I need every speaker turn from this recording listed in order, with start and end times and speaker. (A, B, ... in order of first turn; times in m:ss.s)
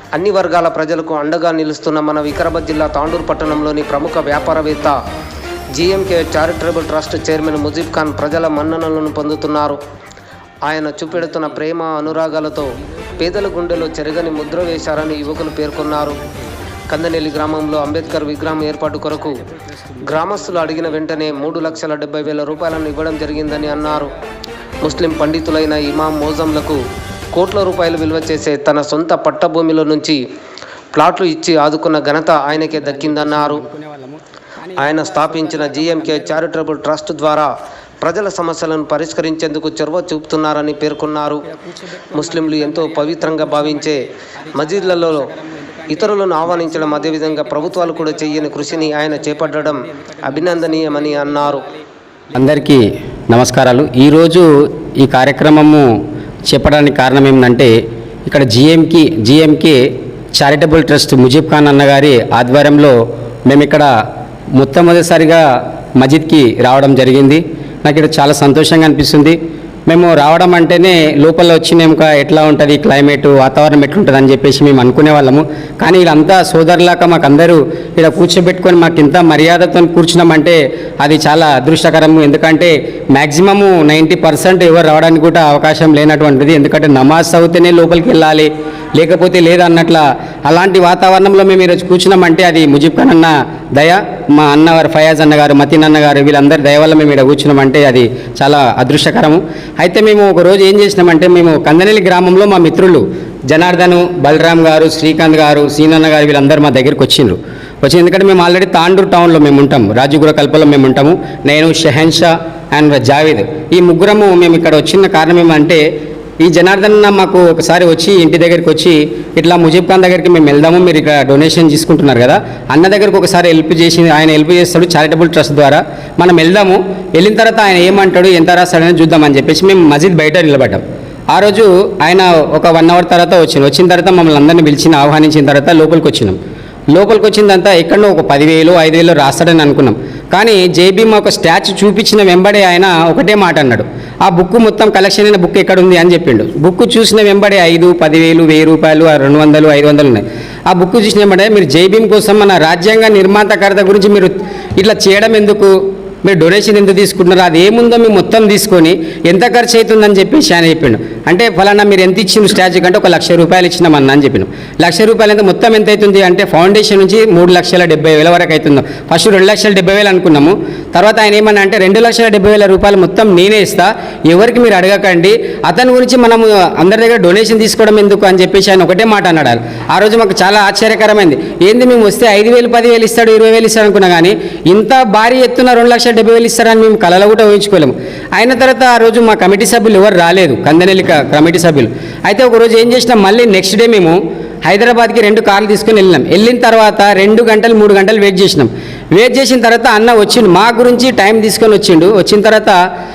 0:00.1-0:05.0 A
0:05.7-0:09.8 A
0:10.6-0:16.2 A
0:16.9-0:19.4 A
0:20.0-0:24.1 A
0:20.3-0:21.3 B
0:24.8-0:26.8 A
0:27.3-0:30.2 A
0:30.9-0:33.6 A
0:32.7-0:36.4 B
0:34.8-0:41.4 A
0:41.6-0:43.9 B
0:42.1-0:45.3 A
0:44.5-0:51.7 B
0:45.9-0:51.7 A
0:52.3-0:55.9 B
0:56.5-0:57.7 B
0:58.3-0:59.8 B
1:00.4-1:03.9 B
1:04.6-1:05.4 B
1:06.0-1:55.8 B
1:56.4-2:16.4 B
2:16.9-3:22.8 B